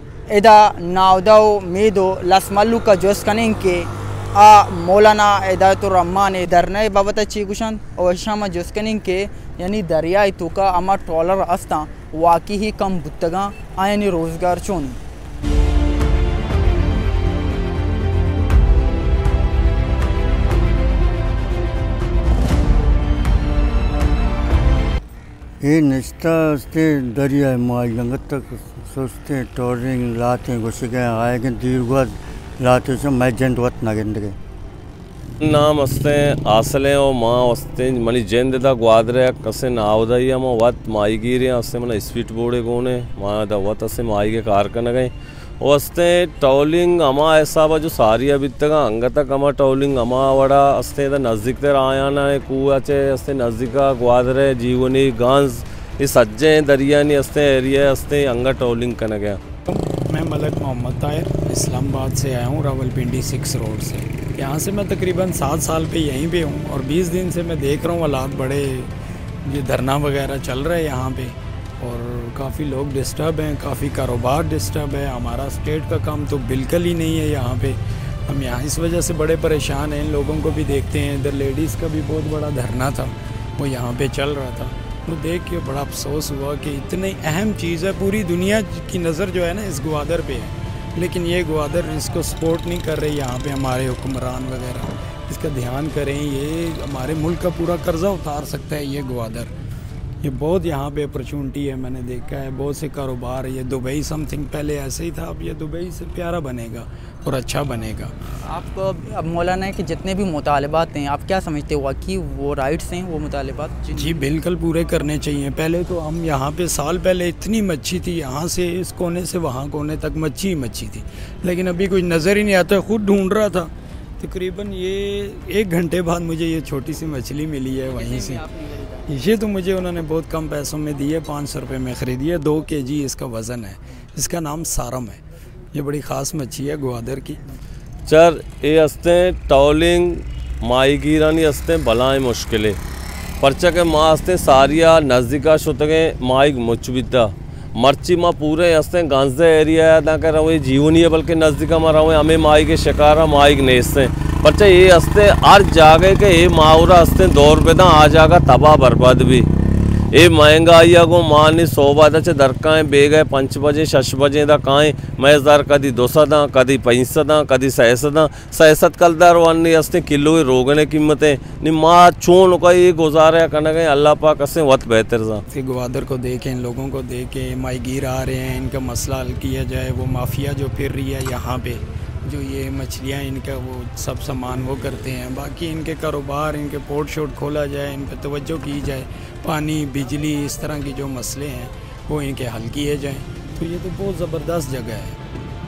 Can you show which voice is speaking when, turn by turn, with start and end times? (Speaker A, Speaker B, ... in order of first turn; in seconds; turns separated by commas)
Speaker A: 0.3-15.0, Speaker B: 25.6-34.4, Speaker C: 35.4-59.4, Speaker D: 59.7-68.9, Speaker D: 69.5-99.5, Speaker D: 100.2-108.1, Speaker A: 108.3-114.2, Speaker D: 113.9-128.4, Speaker A: 127.9-129.1, Speaker D: 129.1-135.2, Speaker D: 135.7-137.6, Speaker C: 138.1-142.8, Speaker C: 143.4-159.5, Speaker C: 160.1-175.4, Speaker D: 175.5-195.2